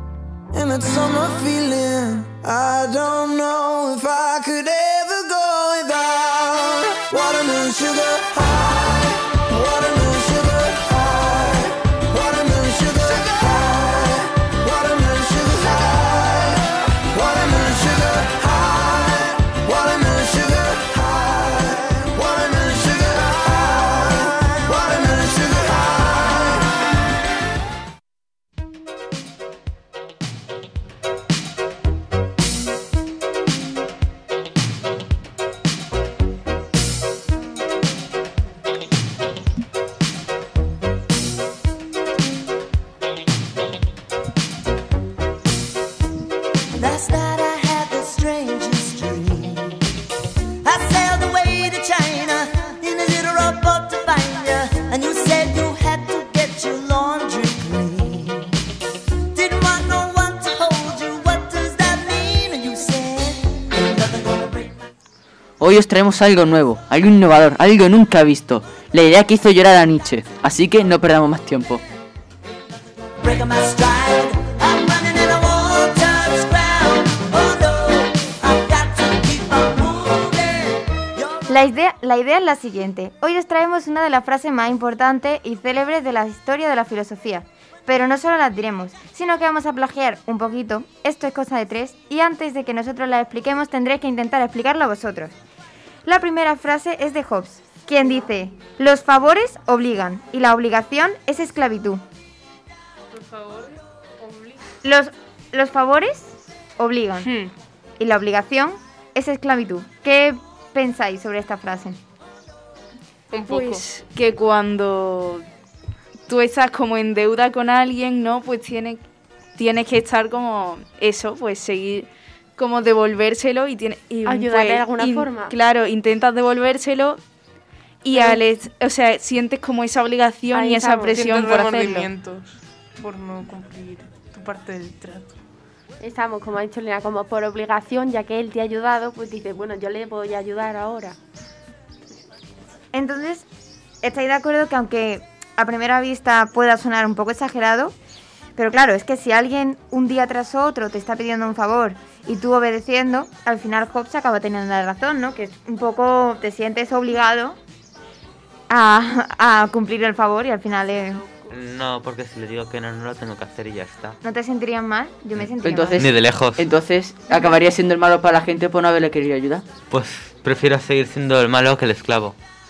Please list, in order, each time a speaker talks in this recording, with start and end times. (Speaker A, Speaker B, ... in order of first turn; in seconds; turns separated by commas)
Speaker A: 0.5-26.7, Speaker B: 46.7-49.8, Speaker B: 50.6-58.5, Speaker B: 59.3-64.7, Speaker C: 65.6-71.8, Speaker B: 73.2-81.5, Speaker D: 81.5-95.4, Speaker D: 96.1-102.0, Speaker E: 103.1-104.6, Speaker D: 104.8-107.3, Speaker E: 107.2-107.5, Speaker D: 108.0-112.0, Speaker E: 113.3-113.8, Speaker F: 113.5-115.5, Speaker F: 116.3-119.0, Speaker F: 119.6-127.2, Speaker G: 124.3-125.5, Speaker F: 128.0-132.1, Speaker G: 128.1-128.4, Speaker G: 130.5-131.1, Speaker E: 131.1-135.4, Speaker G: 136.0-141.2, Speaker D: 142.9-143.5, Speaker D: 144.0-147.9, Speaker D: 148.6-157.6, Speaker D: 158.7-161.3, Speaker H: 161.5-164.2, Speaker D: 164.2-166.0, Speaker C: 165.6-169.7, Speaker H: 166.0-166.7, Speaker H: 169.9-172.4